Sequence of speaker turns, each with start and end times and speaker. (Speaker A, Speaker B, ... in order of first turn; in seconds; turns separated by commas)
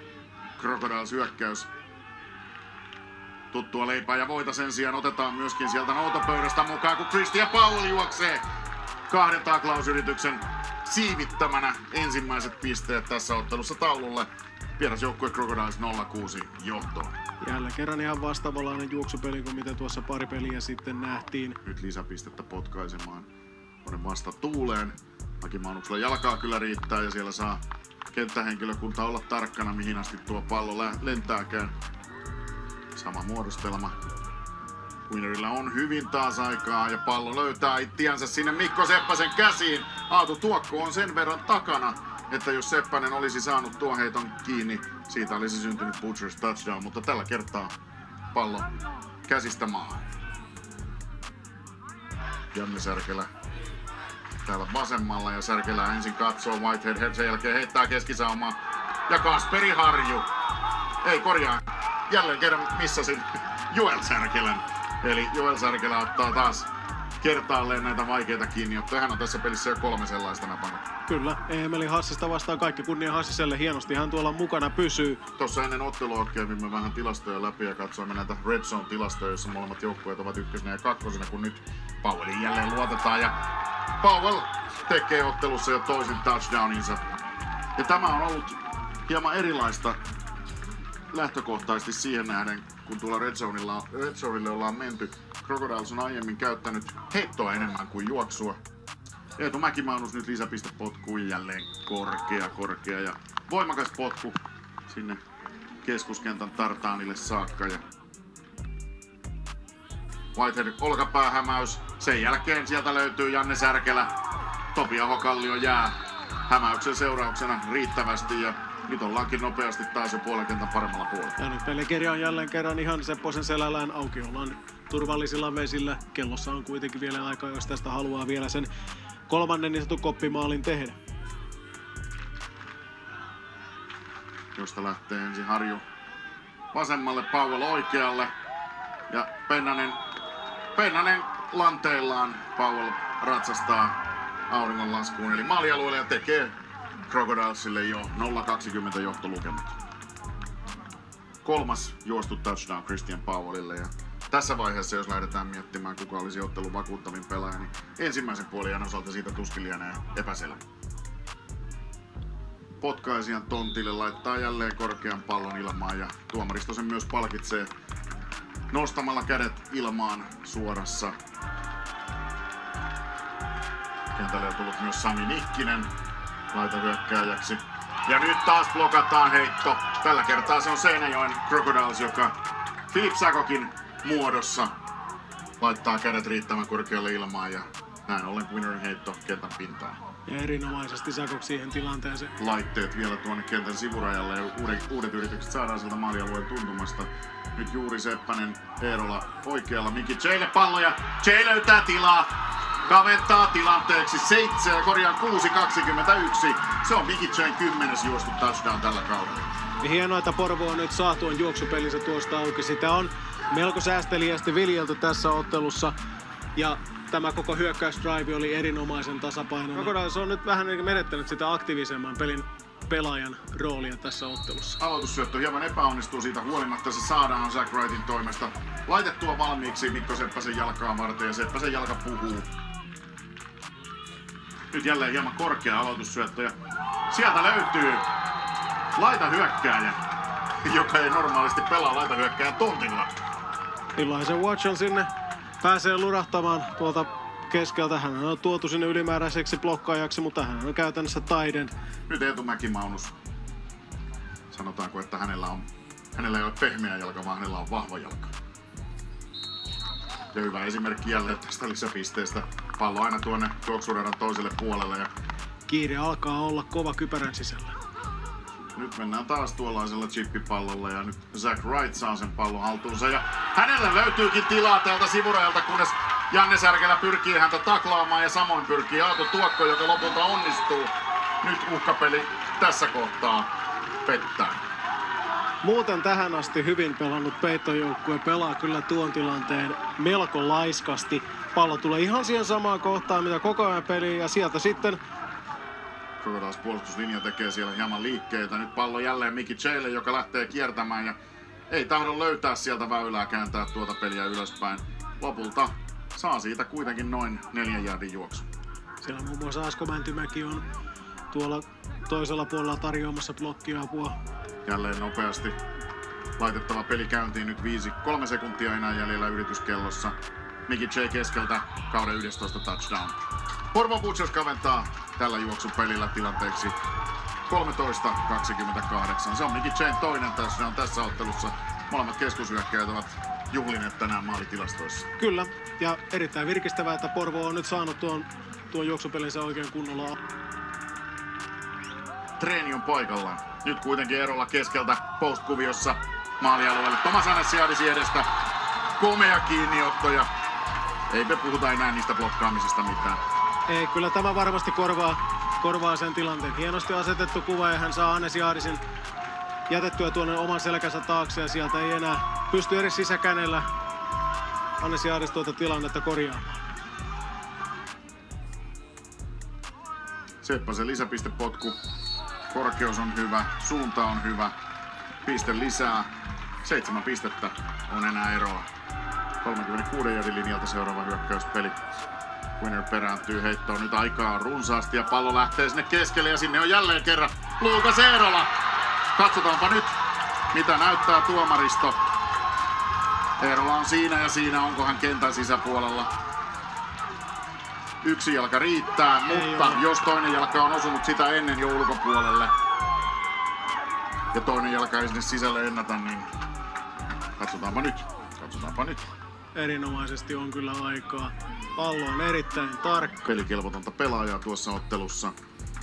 Speaker A: 0.6-1.7, Speaker A: 3.5-8.4, Speaker A: 9.1-17.2, Speaker B: 17.4-21.6, Speaker A: 21.6-23.3, Speaker A: 23.8-31.7, Speaker A: 32.9-34.0, Speaker A: 35.1-47.7, Speaker A: 48.3-48.7, Speaker A: 49.2-50.1, Speaker A: 52.5-53.3, Speaker A: 54.4-60.3, Speaker A: 61.0-70.9, Speaker B: 71.1-75.2, Speaker A: 75.3-83.4, Speaker A: 84.0-87.0, Speaker A: 87.8-90.0, Speaker A: 91.1-98.6, Speaker A: 99.4-105.2, Speaker A: 105.8-107.8, Speaker A: 110.3-114.1, Speaker A: 114.7-121.4, Speaker B: 121.4-128.7, Speaker B: 129.3-130.9, Speaker A: 134.5-135.8, Speaker A: 136.7-138.3, Speaker A: 139.1-140.0, Speaker A: 140.7-146.6, Speaker A: 147.1-149.8, Speaker A: 151.4-160.6, Speaker A: 162.8-167.7, Speaker A: 168.7-171.2, Speaker A: 174.1-175.9, Speaker A: 176.5-182.4, Speaker A: 182.9-184.7, Speaker A: 185.6-190.0, Speaker B: 190.3-192.3, Speaker A: 192.4-209.5, Speaker B: 209.8-215.9, Speaker B: 216.6-222.3, Speaker B: 222.9-224.8, Speaker A: 224.8-232.5, Speaker A: 234.7-236.5, Speaker A: 237.1-238.1, Speaker A: 238.9-240.0, Speaker A: 240.6-243.2, Speaker B: 244.0-245.0, Speaker B: 245.6-251.7, Speaker A: 252.1-253.1, Speaker A: 254.5-258.3, Speaker A: 260.3-265.1, Speaker B: 265.7-267.7, Speaker A: 268.7-283.5, Speaker A: 284.0-284.6, Speaker B: 285.6-294.8, Speaker A: 296.2-301.2, Speaker A: 301.7-308.4, Speaker B: 309.0-310.6, Speaker B: 311.3-314.1, Speaker A: 314.6-315.6, Speaker A: 316.4-320.1, Speaker A: 320.7-326.8, Speaker A: 327.4-335.1, Speaker B: 335.2-340.1, Speaker A: 342.4-348.3, Speaker A: 348.9-350.3, Speaker A: 351.1-353.2, Speaker B: 353.7-358.8, Speaker B: 359.7-363.6, Speaker B: 364.9-366.6, Speaker A: 370.4-371.8, Speaker A: 372.5-374.5, Speaker A: 375.2-378.7, Speaker A: 379.4-381.8, Speaker A: 382.6-388.6, Speaker A: 389.1-390.0, Speaker A: 390.5-392.1, Speaker A: 393.4-396.1, Speaker A: 398.0-402.5, Speaker B: 399.3-399.8, Speaker A: 404.3-406.3, Speaker A: 407.4-409.0, Speaker B: 409.6-413.1, Speaker A: 413.2-415.3